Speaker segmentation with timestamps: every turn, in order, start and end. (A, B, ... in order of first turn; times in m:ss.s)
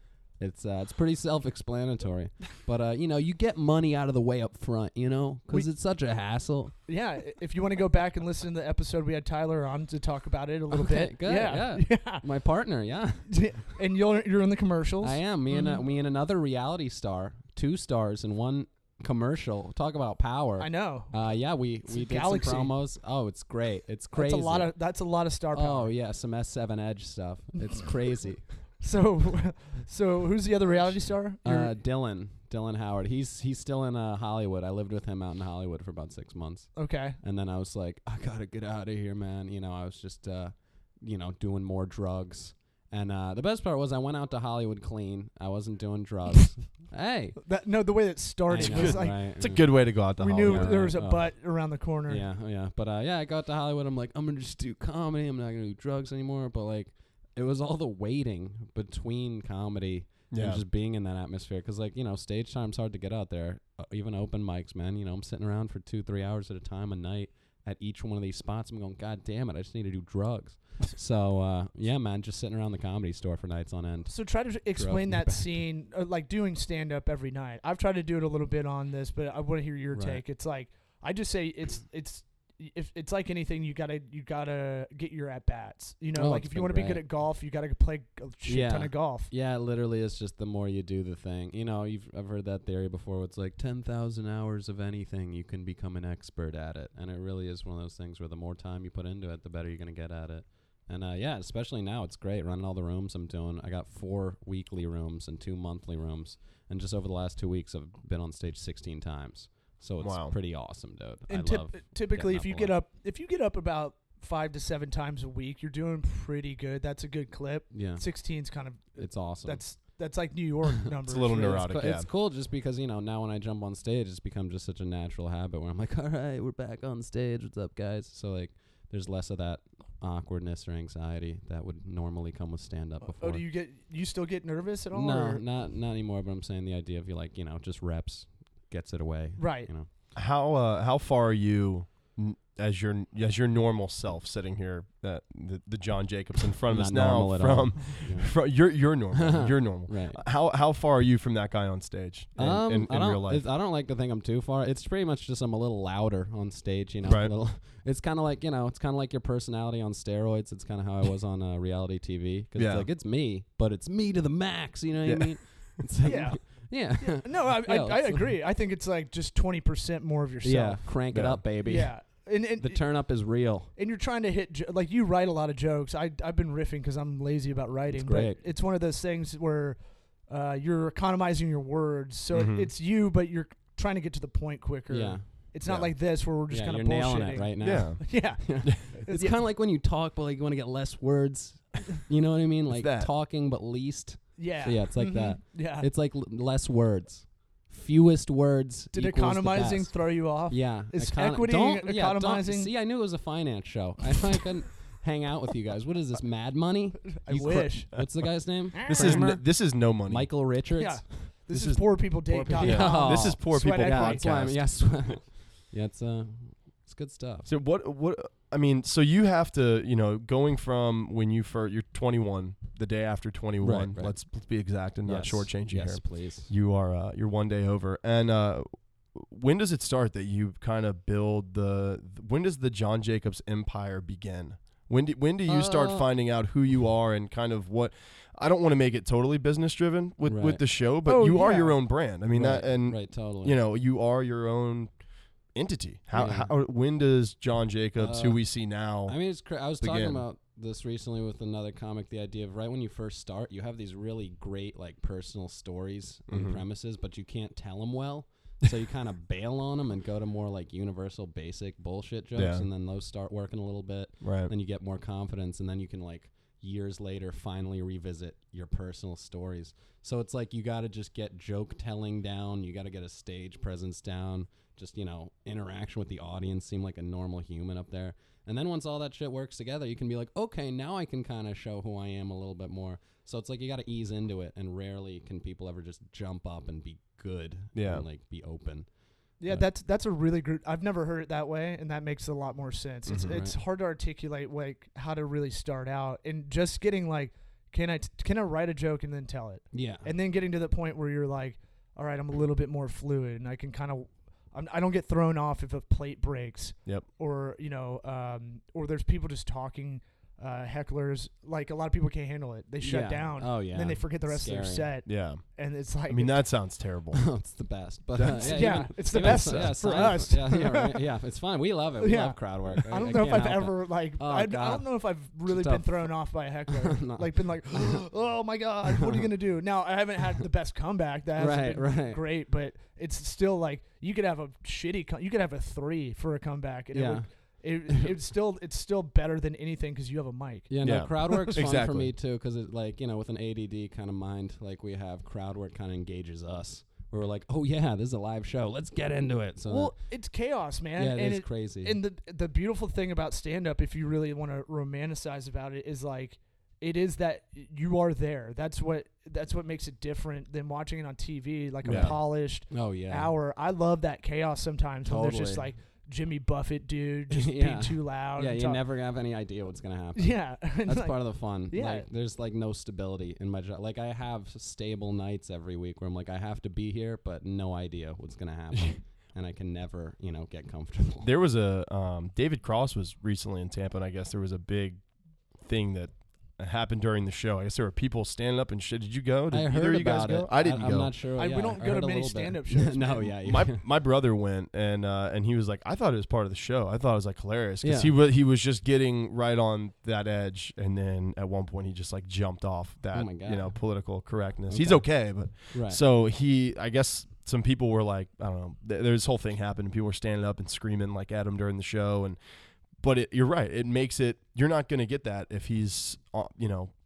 0:00.4-0:06.7 A
0:06.9-0:12.2 B
0:10.7-0:13.4 A
0:13.3-0:15.8 B
0:15.0-0:24.8 A
0:20.6-0:21.1 B
0:21.8-0:22.7 B
0:24.1-0:25.9 B
0:25.5-0:28.6 A
0:28.8-0:31.7 B
0:31.4-0:47.5 A
0:36.7-0:37.2 B
0:47.4-0:49.6 B
0:48.5-1:15.6 A
0:48.6-0:50.9 C
0:50.2-0:52.3 B
1:00.3-1:00.6 C
1:14.1-1:29.3 B
1:19.9-1:20.2 A
1:26.1-1:27.0 A
1:28.4-1:52.8 A
1:50.0-1:50.4 C
1:51.3-2:01.8 B
1:57.7-1:58.1 A
1:58.9-1:59.7 A
2:01.1-2:02.1 C
2:01.4-2:13.4 A
2:13.0-2:15.4 B
2:14.9-2:19.9 A
2:19.4-2:19.7 B
2:20.1-2:33.4 C
2:26.7-2:28.4 A
2:29.1-2:30.2 A
2:32.4-2:48.4 A
2:37.0-2:37.3 C
2:42.6-2:42.9 C
2:45.0-2:45.7 C
2:46.0-2:50.9 B
2:50.4-2:53.7 A
2:51.1-2:51.4 C
2:51.6-2:53.1 B
2:53.7-3:09.4 B
2:57.9-2:58.4 A
3:02.3-3:02.7 C
3:04.9-3:05.4 A
3:05.6-3:05.9 C
3:06.5-3:31.3 A
3:07.6-3:08.5 C
3:12.7-3:13.1 C
3:14.4-3:15.9 B
3:18.9-3:22.7 B
3:27.2-3:28.1 B
3:28.7-3:29.4 B
3:28.8-3:30.4 C
3:30.7-3:34.3 B
3:31.5-3:35.1 C
3:32.3-3:37.5 A
3:37.4-4:04.9 C
3:43.6-3:44.3 A
3:45.0-3:46.5 A
3:55.4-3:56.1 A
4:00.2-4:00.6 A
4:01.0-4:01.8 B
4:02.3-4:03.6 A
4:05.5-4:09.2 C
4:06.1-4:06.5 A
4:08.0-4:49.6 A
4:09.8-4:10.2 C
4:16.3-4:16.6 C
4:22.3-4:22.7 C
4:24.2-4:24.5 C
4:47.7-4:48.0 C
4:49.4-5:16.4 B
4:53.0-4:53.4 C
4:53.3-4:53.6 A
4:59.7-5:00.1 A
5:12.8-5:14.9 A
5:15.0-5:15.4 C
5:16.1-5:17.3 C
5:17.1-5:28.1 A
5:18.2-5:20.2 C
5:18.4-5:21.0 B
5:22.0-5:41.5 B
5:28.8-5:29.2 A
5:31.4-5:32.2 A
5:36.9-5:37.3 A
5:37.9-5:38.1 A
5:40.7-5:50.0 A
5:40.8-5:42.1 C
5:49.7-6:08.8 B
5:51.0-5:52.0 A
6:01.8-6:02.2 C
6:01.8-6:03.3 A
6:05.0-6:05.7 A
6:07.3-6:21.3 A
6:10.1-6:12.0 B
6:21.2-6:25.0 C
6:25.6-6:31.1 C
6:29.5-6:33.8 A
6:31.4-6:33.3 B
6:33.4-6:52.4 C
6:37.8-6:38.1 A
6:43.1-6:44.2 A
6:44.7-6:46.0 A
6:53.0-6:56.9 C